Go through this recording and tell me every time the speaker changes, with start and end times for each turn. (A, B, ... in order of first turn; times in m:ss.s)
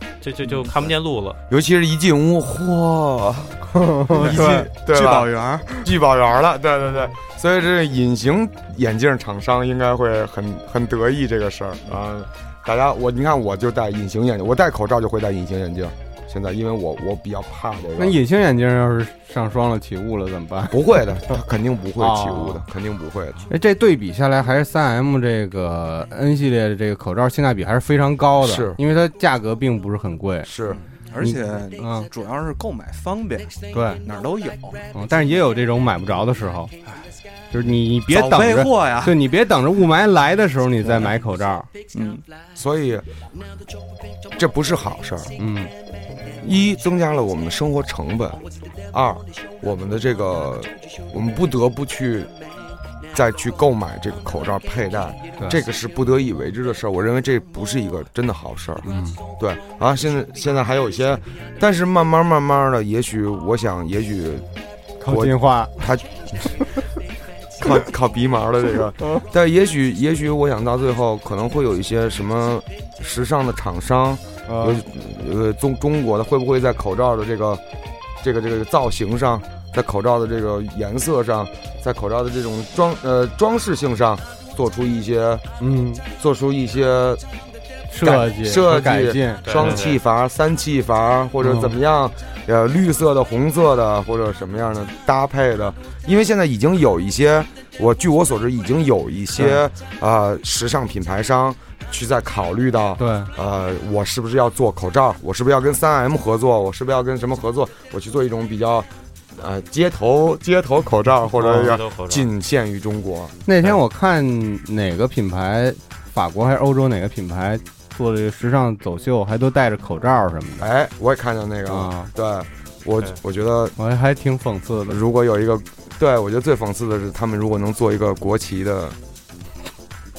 0:00.2-0:01.4 A
0:00.4-0:00.8 B
0:01.5-0:03.6 C
0:03.8-0:04.7 D
0:04.1-0:05.9 B
0:04.3-0:18.2 C
0:18.0-0:20.8 D
0:20.7-0:23.5 C
0:22.0-0:22.6 D
0:23.5-0:30.5 D
0:28.4-0:28.8 C
0:30.4-0:30.8 C
0:30.7-0:35.2 B
0:31.2-0:32.1 D
0:33.7-0:34.0 D
0:34.9-0:36.7 D
0:36.8-0:37.1 B
0:37.5-0:41.7 D
0:38.1-0:39.2 B
0:40.8-0:41.1 B
0:41.9-0:42.2 B
0:42.5-0:43.0 C
0:44.3-0:45.3 C
0:45.4-0:45.7 D
0:46.4-0:52.3 C
0:53.1-0:58.9 C
0:58.8-0:59.2 D
0:59.4-1:04.5 C
1:05.0-1:05.9 D
1:05.0-1:06.6 C
1:07.6-1:17.6 C
1:14.5-1:14.8 D
1:18.2-1:25.4 C
1:25.6-1:26.0 D
1:26.1-1:27.2 C
1:27.9-1:29.8 D
1:28.0-1:53.4 C
1:29.4-1:30.0 A
1:31.4-1:31.7 D
1:43.0-1:43.3 D
1:51.3-1:52.3 A
1:53.4-2:00.7 D
2:00.6-2:03.7 C
2:01.7-2:02.1 D
2:03.8-2:05.0 D
2:04.9-2:09.0 C